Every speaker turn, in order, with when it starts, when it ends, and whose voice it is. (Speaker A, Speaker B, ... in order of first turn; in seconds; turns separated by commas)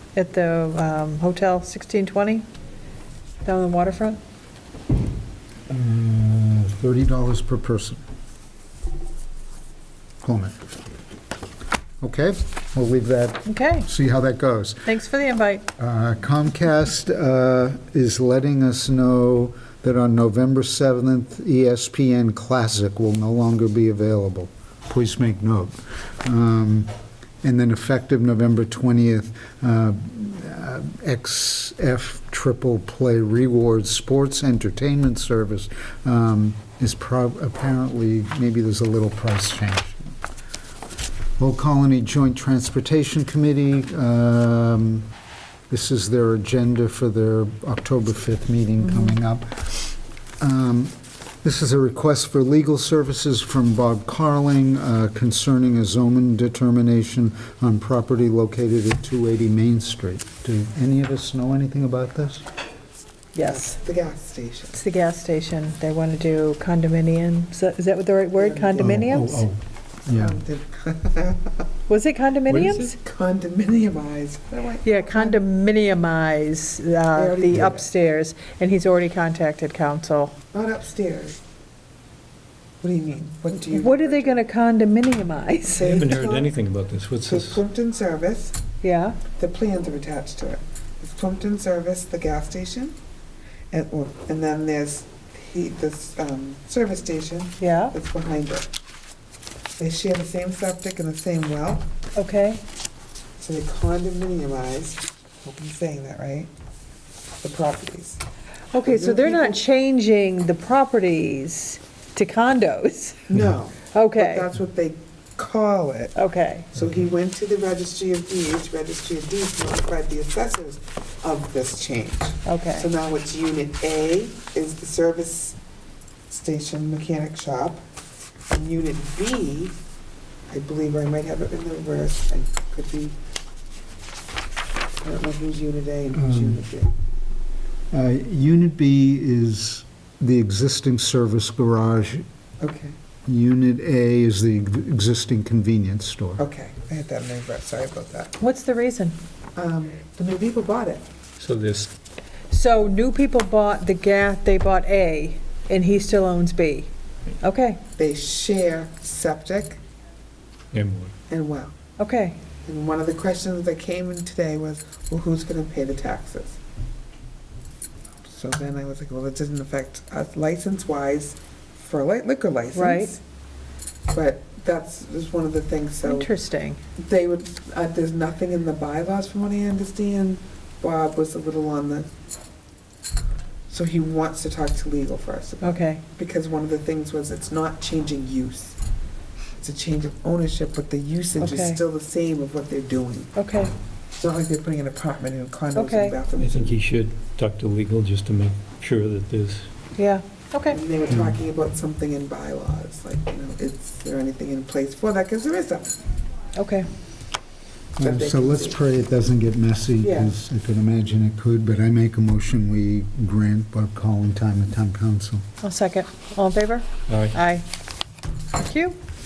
Speaker A: 0.1-2.4, Speaker A: 3.4-4.2, Speaker B: 5.7-8.0, Speaker B: 10.2-10.6, Speaker B: 12.0-14.9, Speaker A: 13.4-13.9, Speaker A: 14.8-15.7, Speaker B: 15.8-26.9, Speaker B: 27.4-40.2, Speaker B: 41.4-45.1, Speaker B: 45.7-62.4, Speaker A: 48.8-49.2, Speaker A: 63.3-63.8, Speaker C: 63.4-64.8, Speaker A: 64.7-69.5, Speaker C: 68.3-69.0, Speaker B: 68.8-70.4, Speaker C: 70.1-71.7, Speaker A: 71.9-72.9, Speaker D: 72.5-72.9, Speaker C: 72.6-75.4, Speaker A: 74.8-80.3, Speaker C: 77.1-77.9, Speaker C: 80.5-81.4, Speaker C: 82.8-84.4, Speaker A: 83.7-86.0, Speaker D: 85.7-87.6, Speaker C: 85.8-86.5, Speaker C: 87.2-88.6, Speaker A: 88.8-89.2, Speaker C: 89.3-93.0, Speaker C: 93.7-98.7, Speaker A: 97.6-97.9, Speaker C: 99.8-101.9, Speaker A: 102.2-102.6, Speaker C: 103.4-106.5, Speaker C: 107.4-108.2, Speaker A: 108.7-113.3, Speaker C: 108.8-109.6, Speaker C: 113.3-116.1, Speaker A: 113.9-114.5, Speaker A: 116.2-116.7, Speaker C: 116.7-125.6, Speaker A: 122.4-122.9, Speaker C: 126.3-127.8, Speaker C: 128.5-129.7, Speaker C: 130.5-133.1, Speaker C: 135.0-136.9, Speaker B: 136.1-136.6, Speaker B: 137.9-142.2, Speaker C: 142.6-142.9, Speaker B: 143.3-146.4, Speaker C: 146.4-148.3, Speaker A: 148.4-149.2, Speaker C: 149.6-151.0, Speaker D: 151.4-151.9, Speaker A: 152.5-157.8, Speaker C: 158.0-159.8, Speaker D: 160.7-161.1, Speaker C: 161.3-161.8, Speaker A: 162.0-162.4, Speaker C: 162.7-166.6, Speaker C: 168.2-173.2, Speaker A: 172.7-173.1, Speaker C: 174.1-176.3, Speaker A: 176.0-176.8, Speaker C: 177.0-182.1, Speaker C: 183.7-188.8, Speaker A: 185.6-186.0, Speaker C: 189.6-193.3, Speaker A: 191.4-191.8, Speaker A: 193.3-193.7, Speaker C: 194.2-196.8, Speaker A: 195.7-196.2, Speaker D: 196.3-199.7, Speaker A: 199.9-200.8, Speaker C: 200.7-206.0, Speaker B: 201.1-201.4, Speaker A: 206.6-206.9, Speaker B: 208.0-215.4, Speaker C: 208.0-208.8, Speaker C: 210.0-210.3, Speaker A: 215.6-217.7, Speaker D: 217.1-217.3, Speaker A: 218.5-219.0